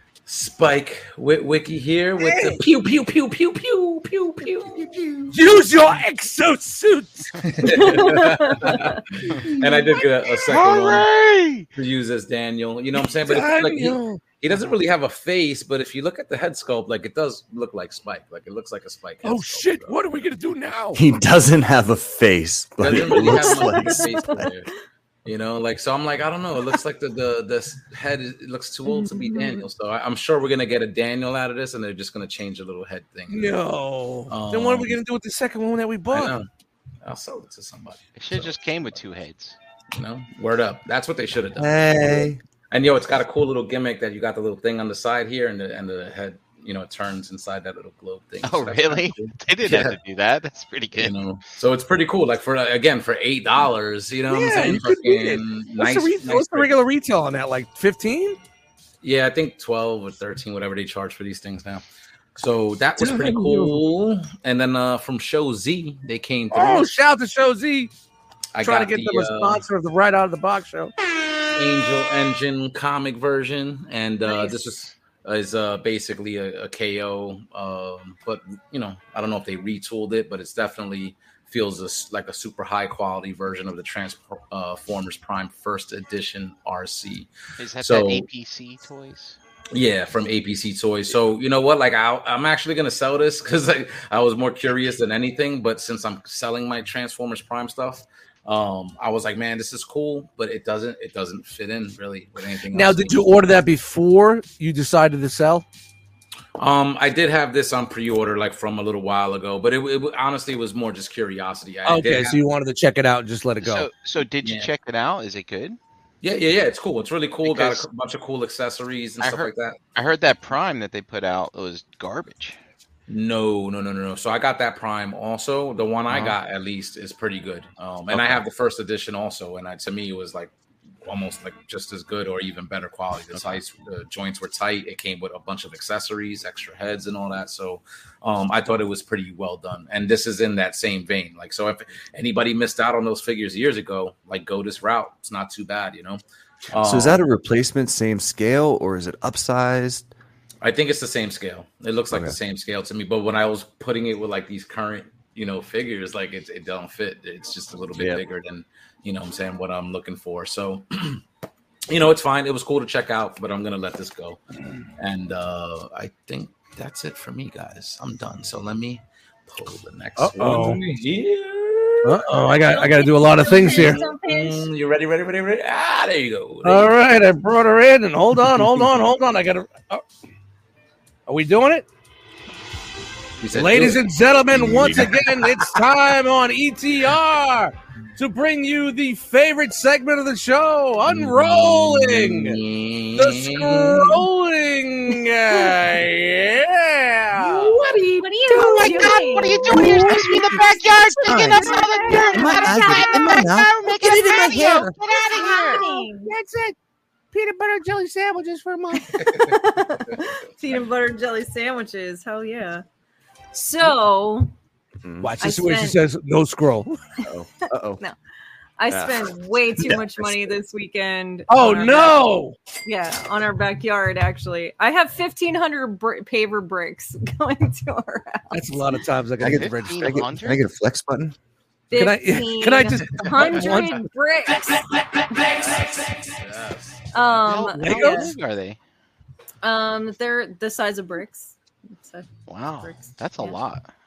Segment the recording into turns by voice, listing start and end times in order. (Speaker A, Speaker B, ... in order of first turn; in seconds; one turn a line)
Speaker A: 0.3-5.0
Speaker B: 2.2-2.6
Speaker B: 5.3-7.7
Speaker A: 7.4-11.1
Speaker C: 7.7-8.8
Speaker D: 10.5-11.7
Speaker A: 11.8-20.0
Speaker B: 13.0-14.2
Speaker B: 19.2-21.0
Speaker E: 20.9-24.5
Speaker A: 22.8-24.7
Speaker C: 23.1-24.5
Speaker A: 25.2-33.6
Speaker C: 28.9-29.6
Speaker B: 33.3-36.4
Speaker A: 34.3-34.9
Speaker A: 36.1-36.5
Speaker A: 37.0-38.5
Speaker D: 38.2-39.6
Speaker A: 39.9-50.0
Speaker E: 41.6-42.4
Speaker D: 48.4-51.1
Speaker A: 51.0-56.8
Speaker B: 54.3-58.4
Speaker A: 59.0-61.8
Speaker A: 62.4-66.9
Speaker B: 63.0-63.8
Speaker B: 66.5-67.9
Speaker A: 68.5-69.6
Speaker B: 68.6-70.9
Speaker A: 71.5-88.3
Speaker C: 74.2-74.7
Speaker D: 87.6-89.4
Speaker A: 89.7-103.3
Speaker B: 102.7-105.7
Speaker A: 106.6-112.4
Speaker B: 111.8-113.9
Speaker D: 113.6-115.8
Speaker A: 114.4-114.7
Speaker A: 116.2-119.8
Speaker D: 117.4-117.9
Speaker D: 119.2-122.6
Speaker A: 123.1-130.5
Speaker D: 126.1-126.4
Speaker D: 128.1-128.4
Speaker A: 131.0-147.2
Speaker E: 146.8-150.1
Speaker A: 150.6-161.2
Speaker A: 161.9-164.4
Speaker A: 165.0-172.3
Speaker B: 170.2-170.8
Speaker B: 172.0-174.0
Speaker C: 172.7-174.7
Speaker A: 173.5-176.9
Speaker B: 176.6-180.0
Speaker B: 181.3-181.9
Speaker A: 183.4-184.0
Speaker B: 183.5-192.6
Speaker A: 184.6-185.7
Speaker A: 191.1-194.2
Speaker B: 193.2-197.8
Speaker C: 197.4-203.4
Speaker B: 198.5-199.0
Speaker D: 198.6-205.8
Speaker B: 199.7-200.6
Speaker E: 201.2-204.9
Speaker B: 202.1-202.4
Speaker B: 204.0-206.8
Speaker C: 205.1-206.3
Speaker B: 207.3-209.2
Speaker C: 209.1-212.8
Speaker C: 213.5-214.5
Speaker E: 215.0-215.3
Speaker B: 215.2-217.0
Speaker C: 215.4-216.0
Speaker E: 217.2-218.0
Speaker C: 218.8-222.3
Speaker E: 218.9-220.5
Speaker B: 221.5-222.6
Speaker C: 222.8-228.6
Speaker B: 228.5-230.2
Speaker E: 229.4-231.4
Speaker D: 229.4-230.6
Speaker C: 231.9-235.7
Speaker B: 231.9-234.1
Speaker A: 235.5-237.1
Speaker C: 237.1-238.3
Speaker D: 237.5-238.8
Speaker B: 237.7-238.3
Speaker C: 239.6-242.3
Speaker D: 242.5-243.8
Speaker C: 242.8-243.6